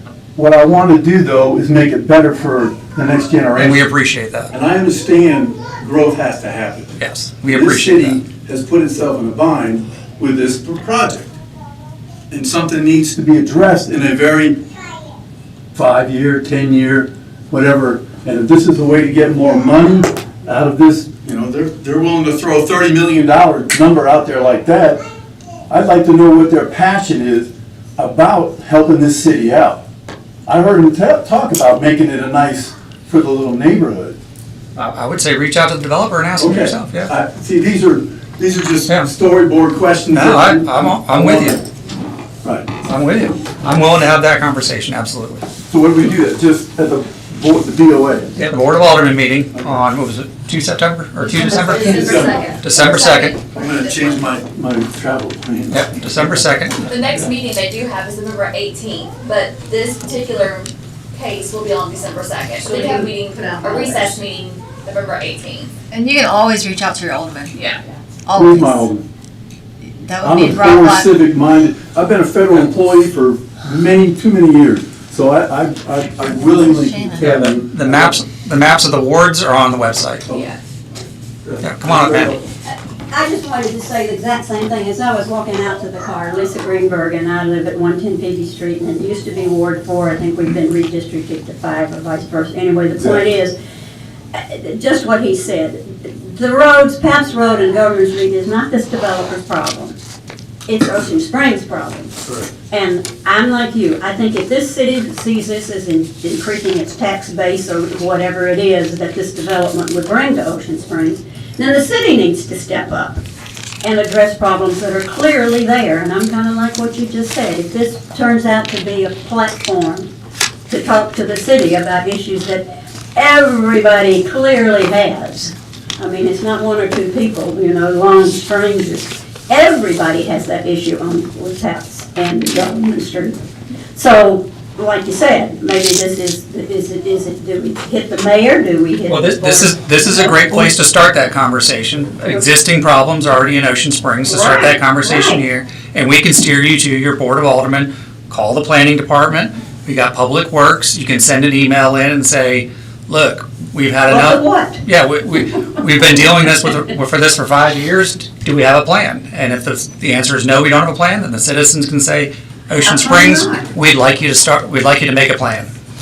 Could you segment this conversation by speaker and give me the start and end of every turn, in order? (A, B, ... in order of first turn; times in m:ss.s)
0:00.4-0:03.9 A
0:03.6-0:04.5 B
0:04.5-0:11.4 A
0:07.0-0:08.2 B
0:12.3-0:14.6 A
0:15.7-0:25.0 A
0:25.7-0:29.8 A
0:30.5-0:34.2 A
0:34.8-0:37.1 B
0:36.4-0:41.6 A
0:40.1-0:41.6 B
0:42.4-0:42.8 A
0:42.8-0:45.4 B
0:45.7-0:48.4 A
0:48.4-0:53.4 B
0:49.5-0:49.8 A
0:51.2-0:54.2 C
0:51.6-0:52.5 A
0:53.5-0:56.5 A
0:55.7-0:57.0 B
0:56.9-1:05.8 C
1:05.9-1:07.5 D
1:08.3-1:08.9 D
1:08.3-1:09.0 A
1:10.0-1:11.1 D
1:10.2-1:18.2 A
1:16.5-1:17.3 D
1:17.2-1:20.3 B
1:20.3-1:20.6 C
1:21.4-1:22.5 A
1:21.6-1:22.3 B
1:23.1-1:33.6 E
1:33.0-1:33.2 A
1:34.3-1:40.0 E
1:40.7-1:42.2 E
1:42.2-1:42.5 A
1:42.7-1:53.2 E
1:53.8-2:00.1 E
2:00.7-2:13.4 E
2:14.0-2:20.7 E
2:19.1-2:45.7 B
2:24.3-2:25.4 E
2:34.1-2:34.8 E
2:42.8-2:43.7 E